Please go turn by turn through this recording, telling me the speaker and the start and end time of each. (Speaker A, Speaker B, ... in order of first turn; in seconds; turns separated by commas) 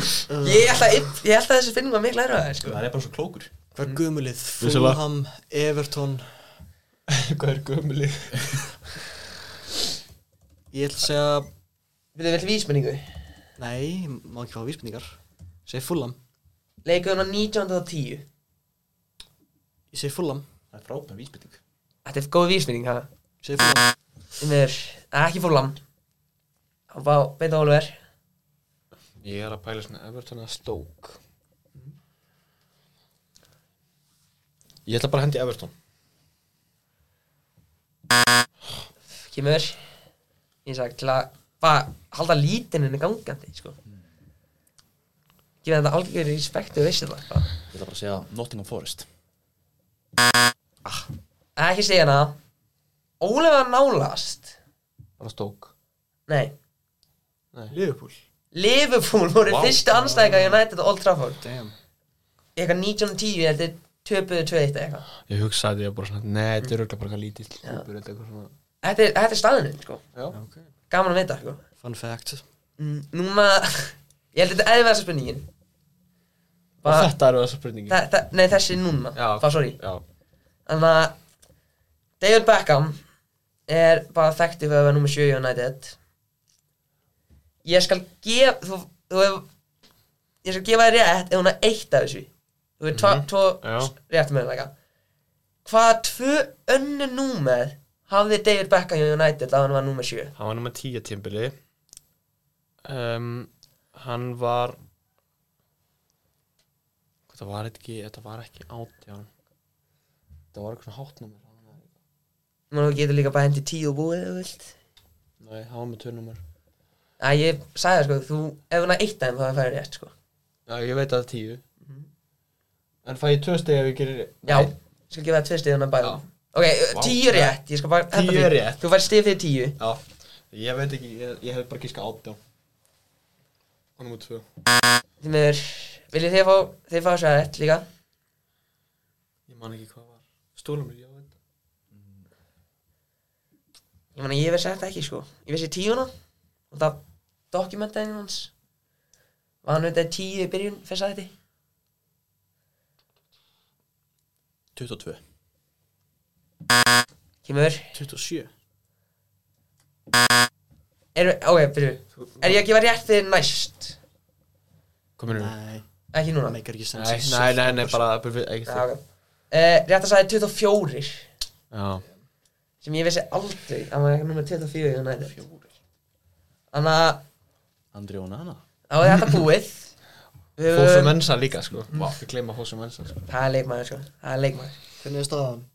Speaker A: 0.3-0.9, Speaker B: 0.4-2.8, Speaker C: 2.6-3.5, Speaker A: 3.7-6.4, Speaker D: 4.6-5.0, Speaker D: 7.1-8.8, Speaker A: 10.7-11.5, Speaker B: 12.1-13.1, Speaker A: 13.6-16.2, Speaker B: 16.8-18.2, Speaker A: 19.9-20.4, Speaker C: 20.7-21.6, Speaker B: 22.0-23.1, Speaker A: 23.4-23.9, Speaker B: 24.4-25.8, Speaker B: 26.9-27.9, Speaker D: 29.2-31.2, Speaker D: 34.9-35.7, Speaker B: 39.2-39.8, Speaker B: 40.6-43.8, Speaker B: 45.6-47.5, Speaker C: 47.7-49.1, Speaker B: 51.5-52.3, Speaker B: 53.2-54.5, Speaker D: 55.2-55.7, Speaker B: 56.3-56.5, Speaker A: 57.7-58.2, Speaker B: 58.5-61.4, Speaker C: 59.5-59.9, Speaker A: 60.0-60.6, Speaker A: 61.4-61.7, Speaker B: 62.5-65.1, Speaker D: 65.3-68.5, Speaker B: 68.8-70.0, Speaker A: 70.3-70.7, Speaker B: 70.9-71.6, Speaker A: 71.8-72.4, Speaker B: 72.8-75.5, Speaker B: 76.8-77.1, Speaker D: 76.8-78.0, Speaker B: 77.9-79.8, Speaker D: 79.1-80.0, Speaker B: 80.7-81.2, Speaker B: 82.2-83.0, Speaker B: 83.7-86.0, Speaker B: 87.6-89.5, Speaker B: 90.4-92.3, Speaker B: 92.8-94.7, Speaker D: 92.9-93.9, Speaker B: 95.6-100.3, Speaker D: 100.4-101.5, Speaker D: 102.8-104.8, Speaker D: 107.3-109.3, Speaker D: 110.5-111.9, Speaker B: 112.7-114.7, Speaker D: 115.4-116.4, Speaker B: 117.2-120.1, Speaker D: 120.7-121.6, Speaker D: 123.0-124.7, Speaker B: 124.5-129.8, Speaker C: 126.9-127.2, Speaker D: 128.1-128.8, Speaker D: 129.8-132.4, Speaker D: 134.0-134.4, Speaker B: 135.2-137.8, Speaker D: 139.5-141.3, Speaker C: 141.9-142.2, Speaker B: 144.1-146.1, Speaker B: 146.7-148.5, Speaker B: 149.6-151.3, Speaker C: 154.7-155.2, Speaker B: 157.4-157.9, Speaker A: 157.9-158.5, Speaker B: 161.1-164.0, Speaker D: 162.2-162.6, Speaker D: 165.2-165.5, Speaker A: 165.3-165.8, Speaker B: 166.1-166.6, Speaker A: 166.5-168.0, Speaker D: 166.9-168.9, Speaker B: 168.7-171.3, Speaker D: 171.7-172.0, Speaker B: 172.8-175.4, Speaker B: 176.7-177.2, Speaker C: 177.9-178.6, Speaker B: 178.9-179.9, Speaker B: 180.6-181.2, Speaker D: 180.7-183.2, Speaker C: 181.9-182.2, Speaker B: 183.3-184.8, Speaker A: 185.0-185.7